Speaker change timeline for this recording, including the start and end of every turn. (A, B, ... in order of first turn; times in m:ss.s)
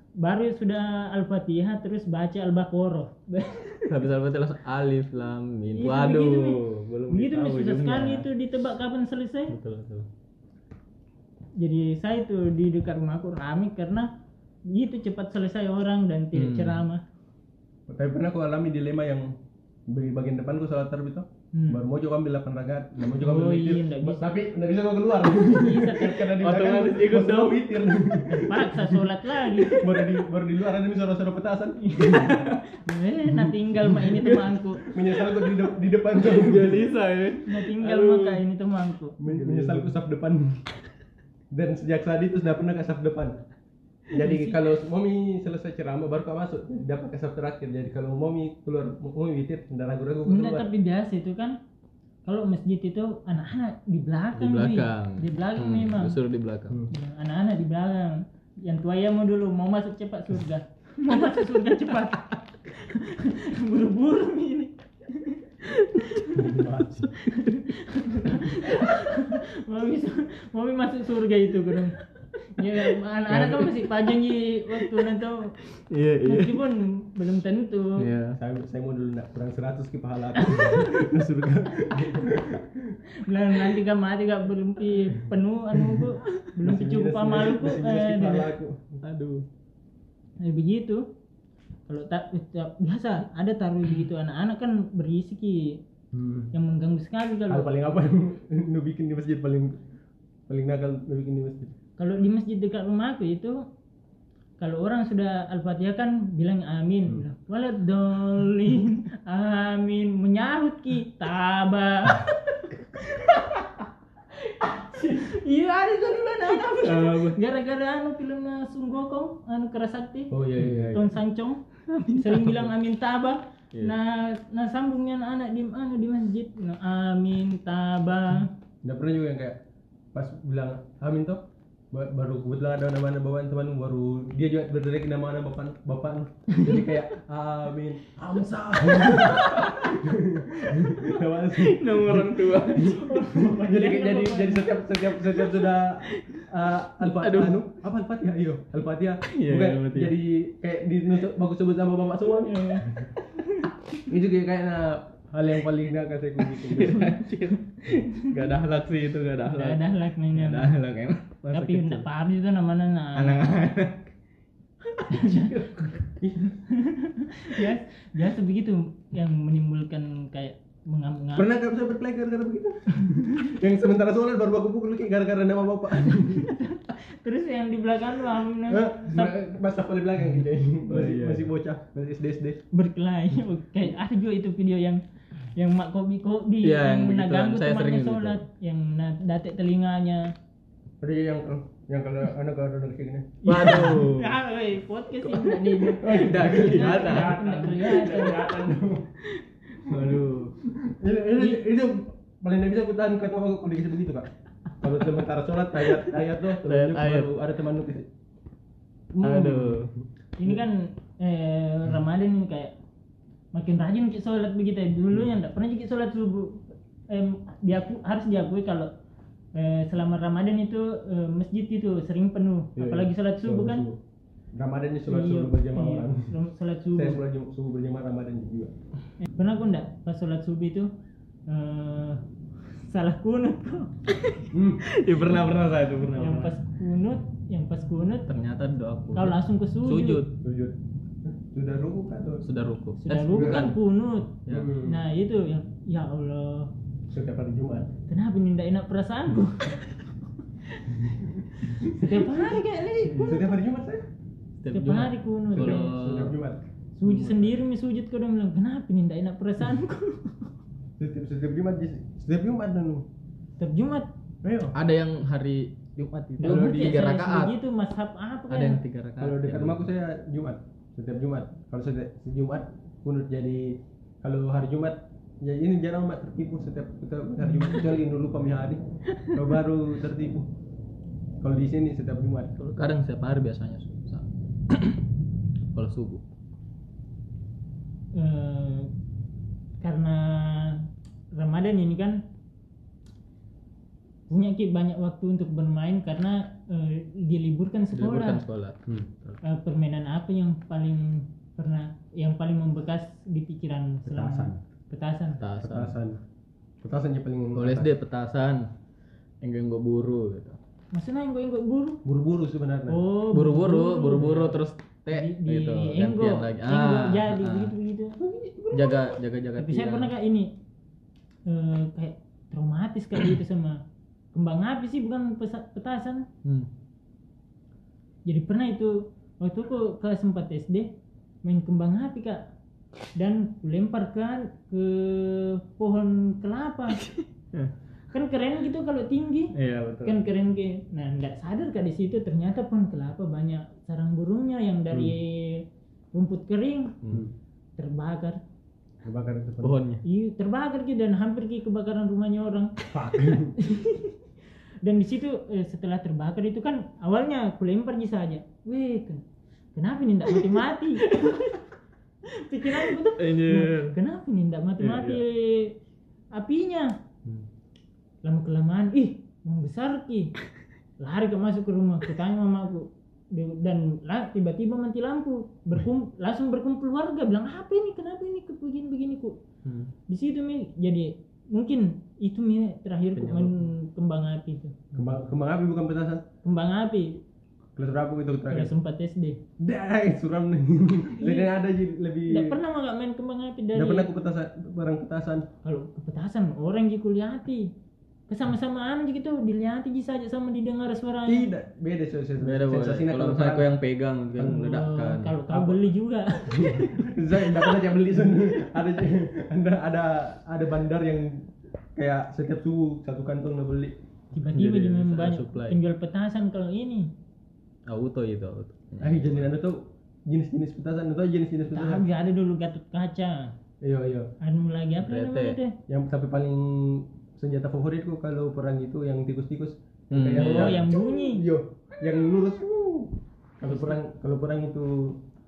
0:00.2-0:04.0 A
0:03.9-0:08.3 B
0:05.8-0:09.6 A
0:09.5-0:10.1 B
0:11.6-0:14.1 A
0:14.7-0:17.0 A
0:16.3-0:16.8 B
0:17.9-0:19.4 C
0:19.9-0:32.4 C
0:21.5-0:21.8 A
0:23.2-0:24.2 A
0:25.4-0:26.3 A
0:26.4-0:27.8 B
0:28.3-0:30.0 A
0:31.8-0:34.8 A
0:32.1-0:32.6 B
0:34.0-0:38.4 B
0:34.8-0:36.9 C
0:37.4-0:39.2 A
0:39.2-0:40.6 C
0:39.2-0:39.9 B
0:41.5-0:43.4 C
0:44.1-0:50.7 C
0:44.2-0:44.6 A
0:50.3-0:51.6 A
0:52.2-0:56.2 A
0:54.4-0:56.8 B
0:56.9-1:06.6 A
1:06.3-1:07.1 C
1:07.2-1:12.0 A
1:12.5-1:15.6 A
1:13.3-1:13.9 B
1:15.8-1:16.6 B
1:16.2-1:18.1 A
1:18.0-1:18.4 B
1:18.4-1:23.0 C
1:20.4-1:21.0 A
1:23.2-1:28.5 A
1:26.6-1:29.0 C
1:29.0-1:29.4 B
1:30.4-1:31.0 A
1:31.9-1:35.8 A
1:36.1-1:36.5 C
1:36.5-1:37.7 A
1:37.5-1:39.8 C
1:40.5-1:41.8 C
1:42.0-1:43.6 A
1:44.6-1:53.8 A
1:54.4-2:08.5 A
1:56.8-1:57.4 B
2:00.3-2:01.1 C
2:00.6-2:01.0 B
2:01.9-2:02.7 B
2:08.8-2:09.6 C
2:10.1-2:33.1 C
2:19.0-2:20.0 B
2:20.9-2:23.1 B
2:22.7-2:24.9 A
2:26.1-2:26.4 B
2:27.0-2:27.6 B
2:29.3-2:30.2 B
2:32.4-2:33.7 A
2:34.1-2:37.1 C
2:36.5-2:42.1 B
2:36.8-2:37.2 A
2:38.1-2:38.3 A
2:39.5-2:40.7 A
2:41.5-2:43.5 A
2:43.2-2:44.1 B
2:44.9-2:46.0 B
2:45.1-2:46.0 A
2:46.2-2:46.6 C
2:46.7-2:51.5 A
2:51.4-2:56.5 C
2:56.1-2:59.3 A
2:58.7-3:02.6 C
3:00.9-3:01.5 B
3:02.7-3:05.0 A
3:05.6-3:10.3 A
3:06.6-3:08.4 B
3:11.0-3:13.8 C
3:13.4-3:18.6 A
3:13.4-3:14.4 B
3:15.2-3:17.7 B
3:16.0-3:19.1 C
3:19.8-3:20.6 B
3:19.9-3:24.3 C
3:24.8-3:28.1 C
3:25.9-3:27.4 B
3:29.1-3:29.9 C
3:29.2-3:29.9 B
3:30.4-3:32.8 A
3:33.5-3:38.9 A
3:39.6-3:43.9 A
3:42.8-3:44.0 C
3:44.5-3:46.3 C
3:45.1-3:47.2 A
3:47.0-3:48.7 C
3:49.2-3:50.9 A
3:51.5-3:52.2 A
3:52.8-3:54.0 A
3:54.5-3:54.9 C
3:54.9-3:56.5 B
3:56.2-3:58.3 A
3:58.3-4:00.4 B
3:59.2-4:00.2 A
4:00.4-4:02.4 C
4:02.4-4:03.8 B
4:03.0-4:06.7 A
4:03.3-4:03.7 C
4:04.5-4:04.7 B
4:04.5-4:05.0 C
4:07.1-4:08.0 C
4:08.1-4:10.0 A
4:11.6-4:12.3 C
4:11.6-4:13.5 A
4:13.1-4:14.1 C
4:14.6-4:16.4 B
4:14.7-4:15.9 A
4:15.5-4:16.6 C
4:17.0-4:20.5 A
4:17.0-4:17.6 B
4:21.0-4:23.1 C
4:23.6-4:24.1 A
4:24.4-4:24.8 C
4:24.7-4:27.6 B
4:26.4-4:28.8 A
4:26.4-4:27.0 C
4:28.5-4:29.8 B
4:29.2-4:40.5 C
4:41.4-4:42.6 C
4:42.6-4:45.1 B
4:45.7-4:46.2 B
4:48.1-4:48.9 A
4:49.8-4:52.2 A
4:54.3-4:58.4 A
4:57.9-4:59.4 B
4:59.4-5:05.4 A
5:04.0-5:04.6 C
5:05.4-5:06.0 B
5:05.6-5:06.2 C
5:06.8-5:07.9 C
5:07.6-5:08.7 B
5:09.4-5:10.6 B
5:10.9-5:12.0 A
5:12.0-5:13.0 C
5:12.9-5:14.6 A
5:13.3-5:17.8 B
5:15.1-5:18.2 A
5:18.2-5:19.0 C
5:18.7-5:20.1 B
5:19.6-5:20.5 A
5:21.5-5:23.8 A
5:24.3-5:26.3 A
5:28.3-5:30.9 A
5:31.4-5:32.5 A
5:33.2-5:37.0 A
5:37.0-5:37.7 B
5:38.1-5:39.5 A
5:39.5-5:40.2 B
5:40.0-5:47.0 A
5:47.0-5:47.3 B
5:47.1-5:47.3 C
5:47.8-5:48.4 A
5:49.0-5:49.8 C
5:49.6-5:50.0 B
5:50.0-5:54.2 A
5:52.9-5:53.6 C
5:54.8-5:59.2 A
5:59.8-6:01.2 A
6:01.0-6:01.6 B
6:02.3-6:05.8 A
6:02.7-6:04.0 B
6:04.8-6:05.2 B
6:06.3-6:06.9 A
6:08.2-6:10.3 A
6:11.0-6:19.4 A
6:19.6-6:19.9 B
6:20.1-6:24.8 A
6:24.9-6:26.2 C
6:26.4-6:27.2 A
6:27.8-6:28.7 C
6:28.5-6:29.4 A
6:29.6-6:32.6 C
6:31.2-6:31.5 A
6:32.3-6:34.1 A
6:33.8-6:35.5 C
6:35.6-6:37.7 A
6:38.3-6:41.5 A
6:41.3-6:43.7 C
6:42.4-6:45.4 B
6:44.4-6:47.8 A
6:45.5-6:45.8 C
6:46.5-6:54.0 C
6:54.3-6:57.1 A
6:54.5-6:55.8 B
6:57.9-6:59.5 B
6:59.0-7:02.0 C
7:01.7-7:03.5 A
7:03.8-7:04.3 C
7:04.4-7:05.8 A
7:05.0-7:05.6 B
7:05.9-7:15.2 C
7:10.1-7:10.9 B
7:10.3-7:11.5 A
7:13.7-7:14.0 A